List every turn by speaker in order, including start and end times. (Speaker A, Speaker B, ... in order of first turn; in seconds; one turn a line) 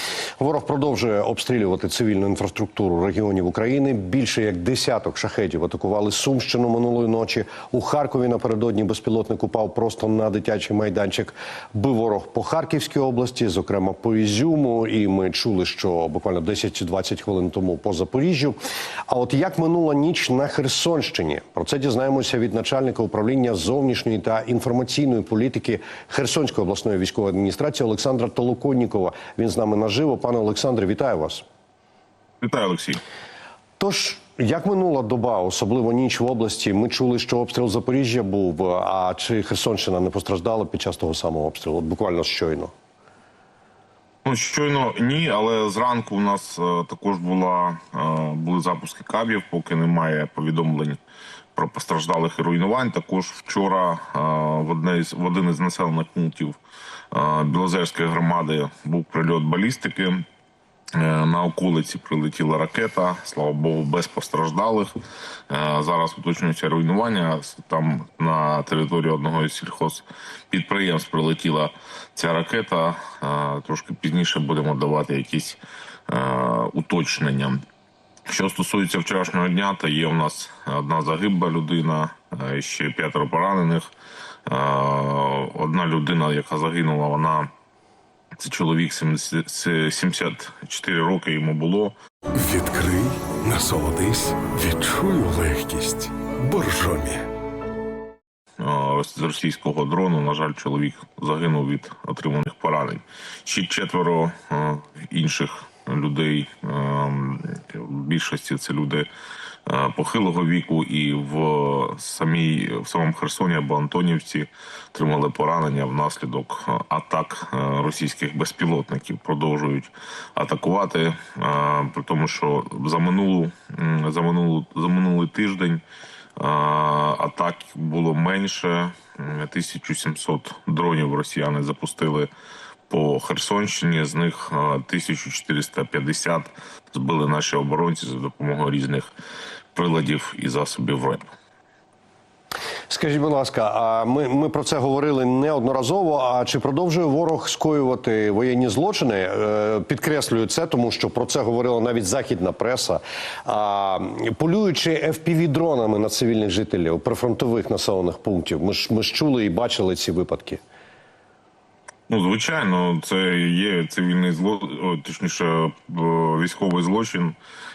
Speaker A: 0.4-18.6
Speaker A: 19.1-31.4
Speaker B: 32.4-33.0
Speaker A: 33.8-42.7
Speaker B: 44.2-51.0
Speaker B: 51.5-56.5
Speaker B: 57.1-60.2
Speaker B: 61.0-64.9
Speaker B: 65.5-77.6
Speaker B: 78.3-83.8
Speaker B: 84.5-87.5
Speaker B: 88.4-92.0
Speaker C: 92.4-97.2
Speaker A: 92.5-93.0
Speaker A: 93.6-94.0
Speaker A: 95.0-95.6
Speaker A: 96.5-97.1
Speaker B: 98.6-109.1
Speaker B: 109.7-125.8
Speaker B: 126.4-132.3
Speaker B: 132.9-139.1
Speaker B: 139.7-141.2
Speaker A: 142.9-160.6
Speaker B: 162.1-167.3